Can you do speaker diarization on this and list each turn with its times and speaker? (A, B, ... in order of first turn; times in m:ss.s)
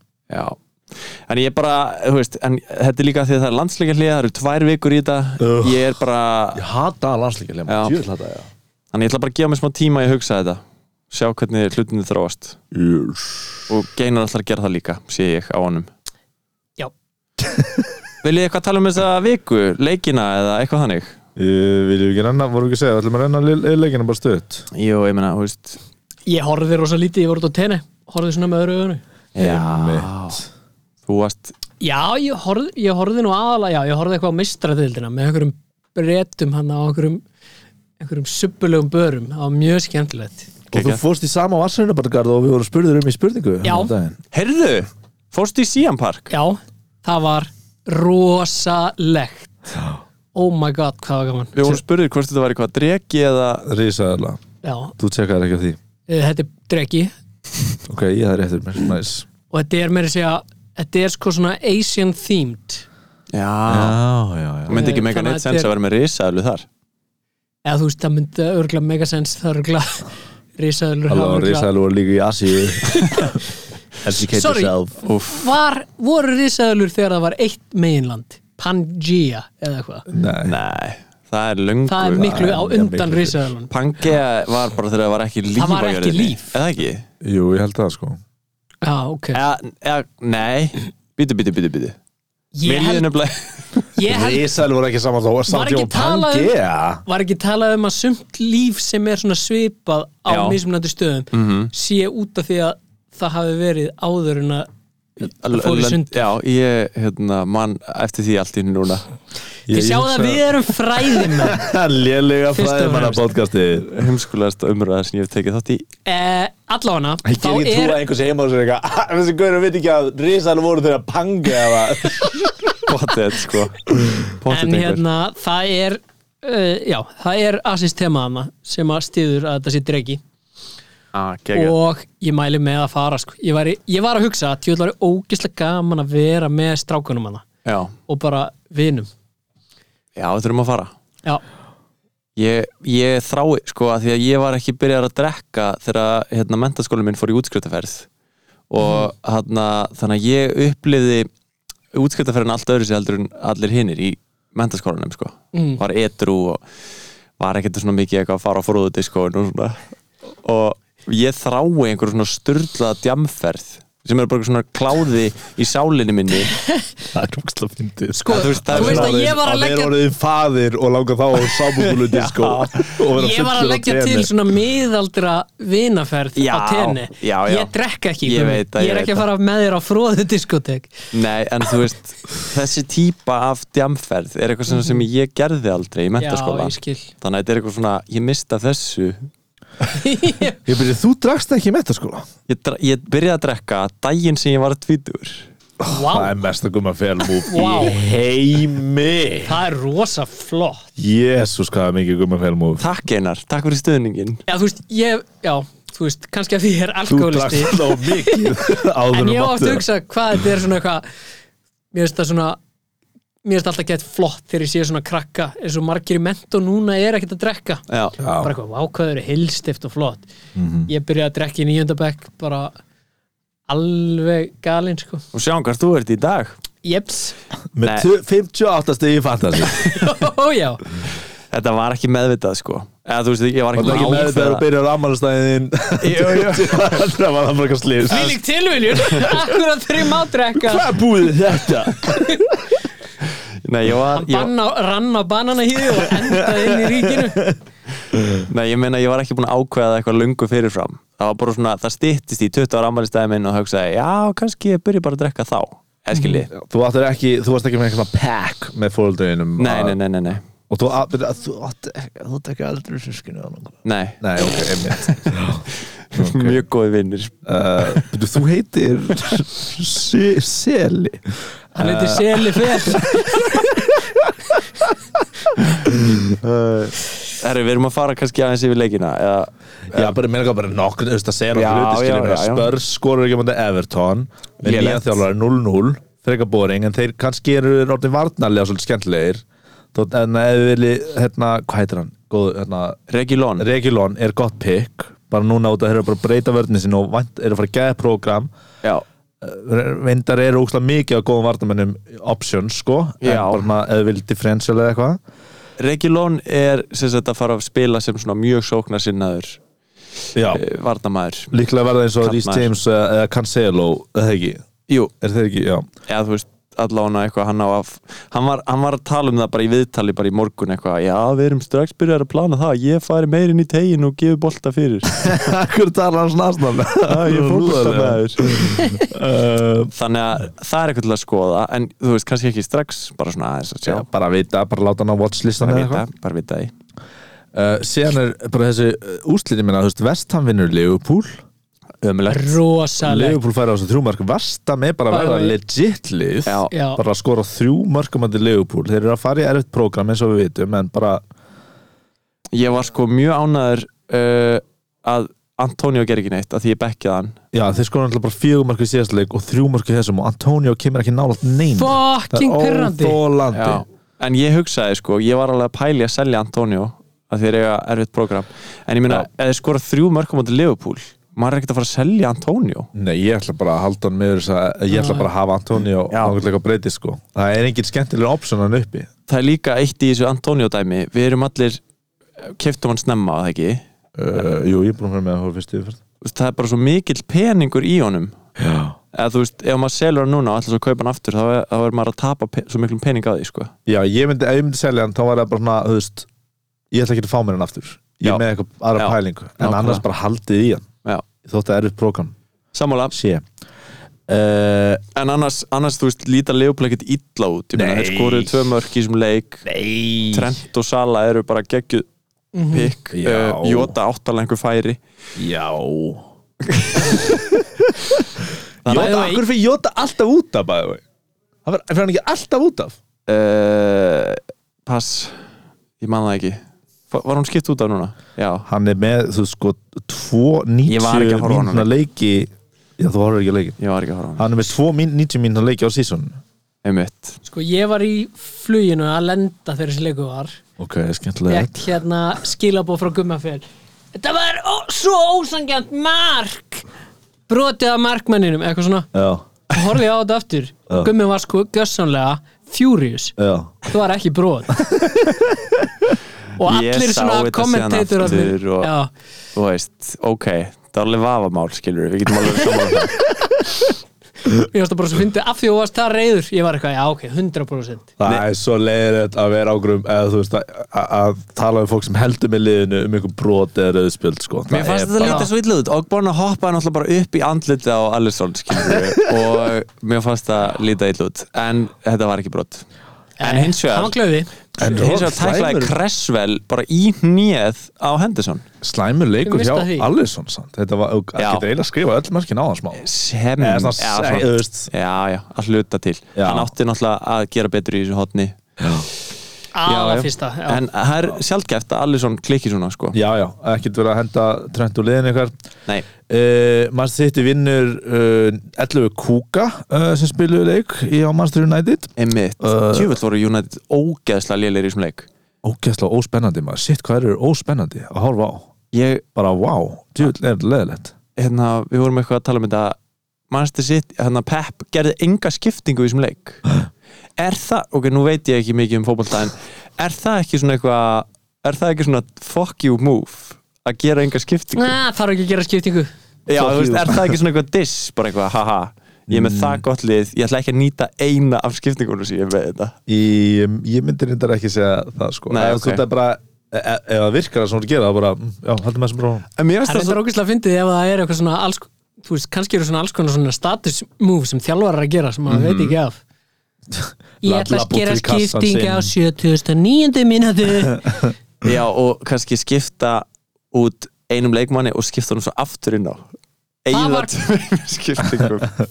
0:00.3-0:06.6 A
0:05.4-0:05.9 B
0:06.5-0:08.5 B
0:07.7-0:08.0 A
0:08.9-0:12.6 A
0:12.7-0:13.6 B
0:13.7-0:15.9 A
0:17.4-0:17.7 B
0:18.2-0:21.1 A
0:21.4-0:24.7 B
0:24.7-0:25.8 A
0:26.3-0:29.0 C
0:29.4-0:30.4 A
0:29.4-0:30.4 B
0:31.1-0:31.5 A
0:31.8-0:37.2 C
0:38.0-0:40.5 C
0:40.7-0:41.0 A
0:40.7-0:44.2 B
0:43.6-0:43.9 C
0:44.3-0:46.3 A
0:46.3-0:49.5 C
0:50.3-0:51.8 C
0:51.5-0:53.6 A
0:53.6-0:54.4 B
0:54.6-0:54.9 C
0:55.0-0:55.8 B
0:56.1-0:57.1 C
0:57.9-0:59.3 B
0:59.5-1:02.8 C
1:03.3-1:04.0 A
1:03.7-1:04.8 B
1:04.7-1:06.6 A
1:04.7-1:05.7 C
1:07.6-1:10.0 C
1:10.6-1:11.7 C
1:11.1-1:13.4 B
1:12.8-1:13.4 C
1:14.0-1:15.0 B
1:14.3-1:14.7 C
1:15.0-1:15.5 A
1:15.3-1:20.0 C
1:20.1-1:20.6 B
1:20.4-1:22.4 A
1:21.9-1:23.7 C
1:22.1-1:23.4 B
1:23.7-1:27.0 A
1:25.6-1:26.6 C
1:27.2-1:28.2 B
1:28.8-1:29.4 C
1:29.3-1:32.0 A
1:32.5-1:33.1 C
1:32.6-1:33.9 A
1:33.9-1:34.5 C
1:34.1-1:37.0 B
1:35.5-1:36.5 C
1:37.0-1:44.7 C
1:40.3-1:40.6 A
1:41.3-1:41.7 A
1:45.2-1:49.1 A
1:45.5-1:46.2 C
1:49.7-1:53.9 B
1:49.7-1:51.6 C
1:52.5-1:53.3 C
1:53.9-1:55.8 A
1:56.0-1:58.0 C
1:57.2-2:02.8 B
2:02.9-2:05.0 A
2:04.5-2:10.2 C
2:11.1-2:11.8 A
2:11.5-2:17.4 C
2:17.6-2:17.9 A
2:18.1-2:19.1 C
2:20.2-2:20.9 A
2:22.4-2:28.1 A
2:28.7-2:31.3 A
2:28.8-2:29.1 C
2:31.9-2:36.6 A
2:35.5-2:35.8 C
2:37.4-2:39.8 A
2:40.4-2:46.5 A
2:47.1-2:54.3 B
2:48.1-2:49.9 C
2:48.3-2:49.2 A
2:51.5-2:52.9 A
2:53.1-3:01.0 C
2:56.4-2:59.2 A
3:01.1-3:09.3 A
3:04.7-3:05.0 C
3:06.2-3:07.1 C
3:09.9-3:10.6 C
3:10.6-3:12.2 B
3:12.5-3:15.5 A
3:15.8-3:19.5 B
3:15.9-3:16.3 C
3:17.4-3:18.0 C
3:19.4-3:20.9 C
3:21.0-3:22.8 B
3:22.8-3:24.4 A
3:24.5-3:31.0 C
3:27.1-3:29.8 B
3:31.9-3:32.6 C
3:33.4-3:40.2 C
3:37.9-3:38.2 A
3:38.2-3:38.5 B
3:40.5-3:40.9 B
3:40.9-3:42.7 C
3:43.7-3:45.2 C
3:45.3-3:46.6 A
3:46.8-3:47.3 C
3:47.7-3:49.8 B
3:47.8-3:48.1 A
3:49.7-3:50.8 C
3:51.5-3:54.6 A
3:53.7-3:58.4 B
3:53.8-3:54.2 C
3:56.0-3:57.0 A
3:58.1-4:01.0 C
4:00.5-4:02.6 B
4:02.0-4:02.5 C
4:03.6-4:04.5 A
4:04.1-4:07.5 C
4:08.4-4:16.5 A
4:16.1-4:16.4 C
4:16.5-4:20.0 B
4:19.6-4:20.4 A
4:20.7-4:26.6 B
4:23.8-4:28.0 A
4:27.4-4:34.3 B
4:31.7-4:33.7 C
4:35.8-4:36.4 B
4:36.2-4:40.1 A
4:39.9-4:53.0 B
4:41.5-4:42.7 A
4:44.6-4:45.2 A
4:53.1-4:53.6 A
4:53.6-4:58.5 B
4:59.4-5:05.2 B
5:03.2-5:03.6 A
5:05.8-5:09.6 A
5:10.3-5:10.6 B
5:10.4-5:11.5 A
5:11.5-5:14.6 B
5:12.2-5:12.7 A
5:15.2-5:15.8 B
5:16.1-5:25.5 A
5:25.1-5:29.9 B
5:27.1-5:28.8 A
5:29.9-5:34.0 A
5:33.8-5:36.0 B
5:35.6-5:36.7 A
5:37.5-5:41.4 B
5:42.0-5:42.6 A
5:42.3-5:43.4 C
5:43.0-5:51.2 B
5:45.1-5:45.6 C
5:46.4-5:46.7 A
5:46.7-5:47.0 C
5:52.5-5:57.4 A
5:57.5-6:03.8 B
6:01.7-6:03.2 C
6:03.5-6:12.9 A
6:12.9-6:19.1 B
6:14.9-6:15.3 C
6:16.1-6:16.4 A
6:19.3-6:21.8 A
6:22.4-6:23.8 A
6:24.2-6:26.0 B
6:26.2-6:28.3 A
6:28.6-6:29.0 B
6:29.1-6:33.7 A
6:33.8-6:36.3 B
6:36.9-6:40.9 B
6:39.0-6:40.0 A
6:41.4-6:42.3 B
6:42.7-6:43.1 A
6:43.1-6:43.4 B
6:44.3-6:45.0 B
6:45.1-6:49.6 A
6:47.7-6:48.7 B
6:49.6-6:50.5 B
6:50.3-6:52.1 A
6:52.5-6:52.9 C
6:52.7-6:55.0 A
6:53.1-6:54.0 B
6:55.4-6:56.2 B
6:56.6-6:57.4 A
6:57.0-6:57.9 B
6:58.8-6:59.2 A
6:58.8-7:01.0 B
6:58.9-6:59.4 C
7:01.6-7:03.0 B
7:03.3-7:05.4 A
7:06.0-7:08.6 A
7:08.6-7:13.8 B
7:10.8-7:11.9 A
7:13.8-7:14.5 A
7:14.4-7:16.4 B
7:16.8-7:17.4 A
7:17.4-7:20.6 C
7:20.8-7:21.9 B
7:21.5-7:26.8 C
7:27.5-7:29.1 C
7:29.1-7:29.4 B
7:29.7-7:34.8 C
7:33.4-7:33.8 B
7:34.8-7:35.7 B
7:36.6-7:39.1 C
7:36.6-7:38.9 A
7:39.5-7:43.2 A
7:44.6-7:48.1 C
7:48.2-7:55.5 B
7:54.7-8:02.8 A
7:55.2-7:55.5 C
8:03.4-8:04.5 C
8:03.4-8:04.1 A
8:04.8-8:06.0 B
8:04.8-8:08.6 A
8:08.8-8:13.0 B
8:09.4-8:10.1 C
8:11.4-8:11.6 A
8:13.0-8:18.5 A
8:13.6-8:14.9 B
8:16.4-8:16.7 B
8:18.8-8:19.1 B
8:19.7-8:20.8 C
8:19.8-8:23.2 A
8:23.1-8:25.5 B
8:26.3-8:33.2 B
8:32.2-8:35.3 A
8:35.6-8:38.7 B
8:38.9-8:39.2 A
8:39.3-8:41.1 B
8:41.4-8:43.0 A
8:43.5-8:46.6 A
8:47.4-8:55.0 A
8:54.7-8:56.1 C
8:56.5-9:03.0 A
8:56.5-8:57.4 B
8:59.3-8:59.8 B
9:03.1-9:09.4 B
9:05.5-9:06.0 A
9:09.6-9:10.2 A
9:09.8-9:16.2 C
9:15.5-9:15.9 A
9:16.9-9:19.1 B
9:17.4-9:21.1 C
9:20.9-9:21.3 B
9:21.6-9:26.2 A
9:26.8-9:28.8 A
9:26.9-9:27.3 C